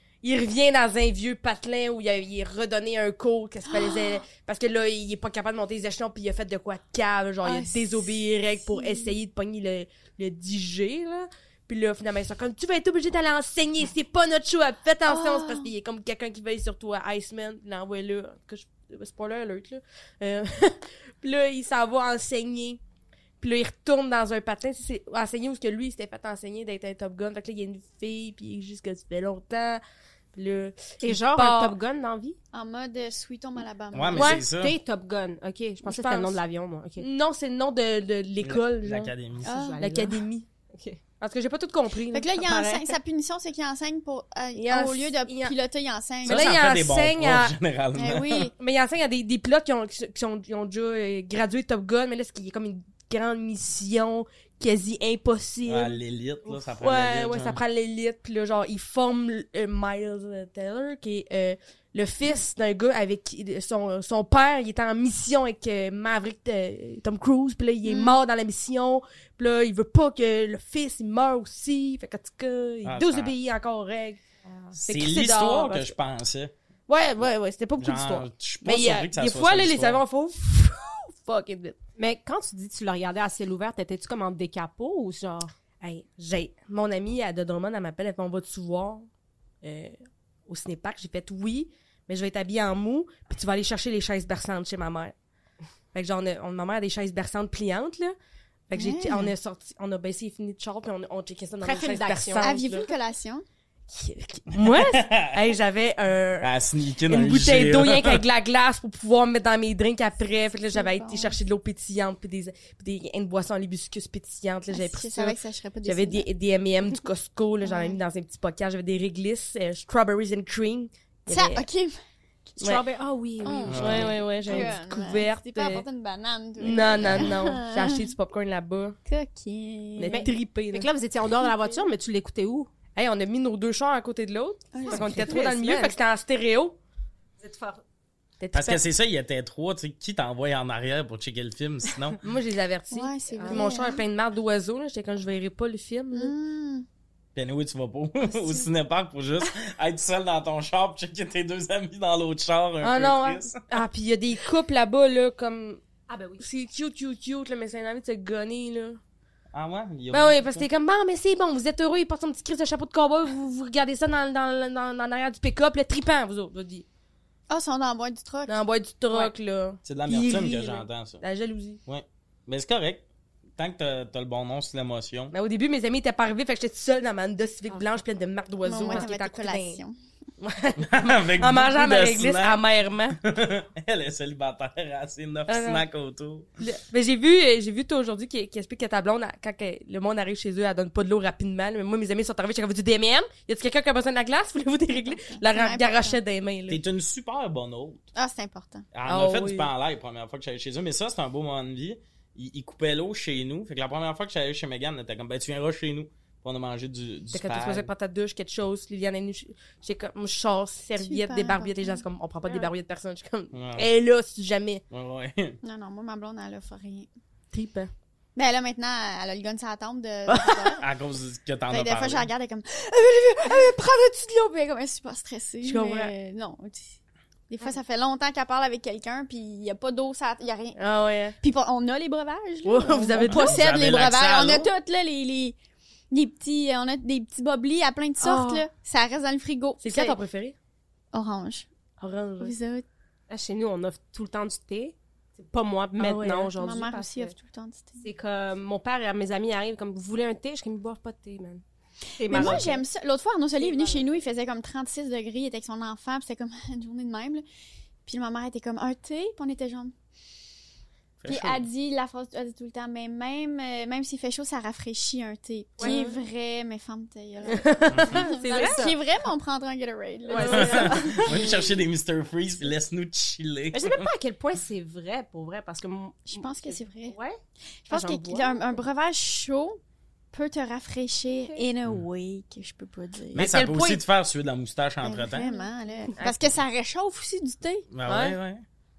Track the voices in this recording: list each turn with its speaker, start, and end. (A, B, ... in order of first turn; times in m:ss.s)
0:00.2-0:22.8 A
0:03.7-0:04.2 B
0:07.4-0:09.1 B
0:15.1-0:15.7 B
0:23.4-0:29.8 A
0:30.3-0:31.8 A
0:31.0-0:32.4 C
0:32.5-0:34.4 B
0:33.9-0:34.8 D
0:34.1-0:34.4 A
0:34.5-0:37.0 C
0:35.8-0:36.4 A
0:37.0-0:39.1 A
0:38.4-0:39.5 D
0:39.4-0:39.8 B
0:39.4-0:40.2 C
0:39.8-0:40.5 A
0:40.7-0:41.0 C
0:41.2-0:42.3 A
0:42.1-0:46.6 B
0:42.4-0:43.0 C
0:44.6-0:45.5 A
0:46.2-0:47.6 A
0:46.2-0:48.5 D
0:47.9-0:48.5 B
0:48.6-0:56.0 A
0:55.6-0:57.6 D
0:56.7-1:14.2 A
1:07.8-1:08.2 B
1:12.8-1:13.3 D
1:14.7-1:15.9 A
1:14.7-1:16.5 D
1:16.9-1:21.8 A
1:17.8-1:20.0 D
1:22.0-1:25.5 C
1:25.8-1:29.1 A
1:29.6-1:35.1 A
1:35.9-1:38.1 A
1:38.7-1:42.9 A
1:38.7-1:39.3 B
1:41.6-1:42.6 C
1:42.4-1:43.4 B
1:43.9-1:46.5 A
1:44.5-1:45.4 D
1:46.4-1:48.2 D
1:47.1-2:01.6 A
1:50.7-1:51.4 B
1:54.7-1:56.2 B
1:57.6-1:58.0 B
2:01.3-2:02.0 B
2:02.6-2:02.8 A
2:02.6-2:04.7 C
2:03.4-2:08.0 B
2:03.7-2:04.1 D
2:03.7-2:05.8 A
2:06.6-2:09.0 A
2:09.1-2:10.3 B
2:10.0-2:10.9 A
2:10.1-2:12.7 C
2:11.4-2:11.8 B
2:12.9-2:16.7 A
2:14.7-2:15.5 B
2:14.8-2:16.0 C
2:17.4-2:17.8 C
2:18.4-2:18.8 A
2:18.5-2:22.2 D
2:22.2-2:26.3 A
2:22.9-2:24.0 B
2:23.3-2:23.7 C
2:26.1-2:26.8 B
2:27.3-2:33.7 D
2:32.8-2:35.8 A
2:36.1-2:36.4 C
2:36.4-2:39.0 A
2:39.5-2:40.6 D
2:40.1-2:46.8 A
2:47.5-2:48.6 B
2:48.5-2:51.8 A
2:49.8-2:51.2 D
2:51.8-2:53.0 D
2:53.6-2:55.3 D
2:55.3-2:59.8 A
2:58.6-3:00.0 B
3:00.4-3:03.2 A
3:00.8-3:02.6 D
3:03.2-3:06.5 D
3:05.5-3:05.8 A
3:06.6-3:16.8 A
3:15.2-3:16.2 B
3:16.7-3:18.0 D
3:18.1-3:18.8 B
3:18.9-3:27.9 D
3:19.1-3:19.7 A
3:27.3-3:34.8 A
3:31.0-3:32.0 B
3:33.5-3:33.9 D
3:34.9-3:35.6 D
3:35.6-3:37.1 B
3:37.5-3:37.9 A
3:38.3-3:40.8 B
3:40.3-3:40.8 A
3:40.8-3:42.3 D
3:41.7-3:47.0 B
3:45.6-3:46.1 A
3:47.5-3:50.8 B
3:50.8-3:51.4 A
3:51.4-3:55.6 B
3:52.6-3:53.6 A
3:53.2-3:54.7 D
3:56.1-4:00.2 B
3:58.2-3:58.6 A
3:59.8-4:00.5 A
4:01.1-4:01.7 B
4:02.0-4:02.5 A
4:02.4-4:02.8 B
4:03.3-4:07.3 C
4:06.0-4:06.5 A
4:06.5-4:08.0 B
4:08.0-4:11.6 C
4:12.2-4:12.8 C
4:12.2-4:17.4 B
4:12.3-4:12.7 D
4:13.7-4:14.0 A
4:18.0-4:19.9 B
4:21.2-4:21.6 D
4:21.3-4:31.2 B
4:25.8-4:26.1 C
4:27.5-4:28.9 A
4:27.9-4:28.2 D
4:28.3-4:29.0 C
4:30.3-4:31.2 C
4:30.3-4:31.5 A
4:30.5-4:34.1 D
4:33.7-4:38.8 C
4:36.3-4:37.1 B
4:37.8-4:39.8 B
4:40.3-4:43.5 B
4:41.3-4:41.6 C
4:43.3-4:45.5 D
4:43.4-4:44.0 A
4:45.0-4:47.9 B
4:47.9-4:48.6 D
4:48.0-4:48.4 A